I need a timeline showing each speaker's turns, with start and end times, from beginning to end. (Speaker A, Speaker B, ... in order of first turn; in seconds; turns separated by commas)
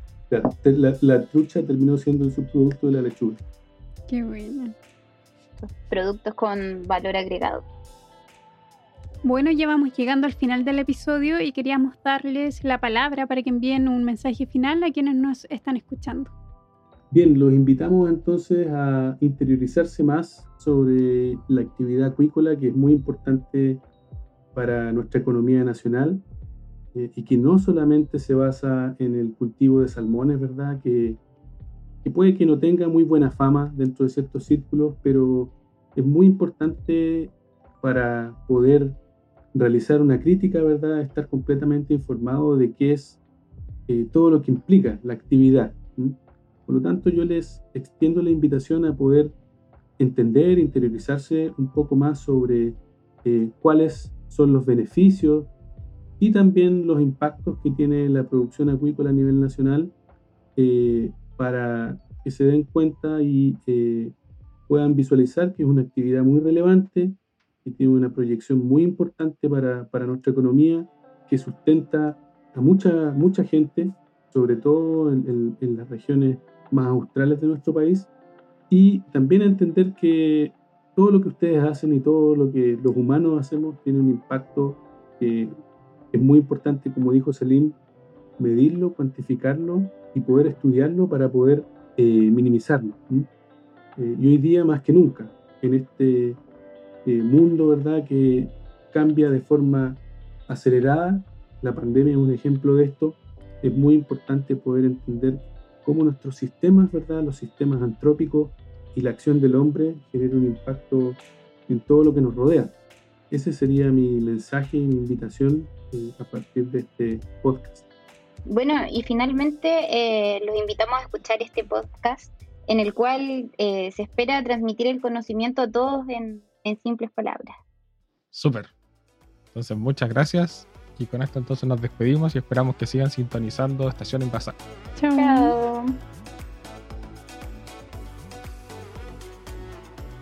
Speaker A: 0.3-3.4, Speaker B: 4.1-4.7, Speaker C: 5.6-7.6, Speaker B: 9.2-16.3, Speaker A: 17.1-23.8, Speaker A: 24.5-26.2, Speaker A: 26.9-31.2, Speaker A: 32.0-39.0, Speaker A: 39.5-43.2, Speaker A: 43.9-49.3, Speaker A: 50.0-55.5, Speaker A: 56.2-59.9, Speaker A: 60.5-64.2, Speaker A: 64.7-78.1, Speaker A: 78.7-85.6, Speaker A: 86.1-87.8, Speaker A: 88.4-93.3, Speaker A: 94.0-96.4, Speaker A: 97.0-112.7, Speaker A: 113.3-117.8, Speaker C: 118.5-127.5, Speaker D: 128.3-128.7, Speaker D: 129.5-134.6, Speaker B: 135.0-135.5, Speaker C: 135.2-135.9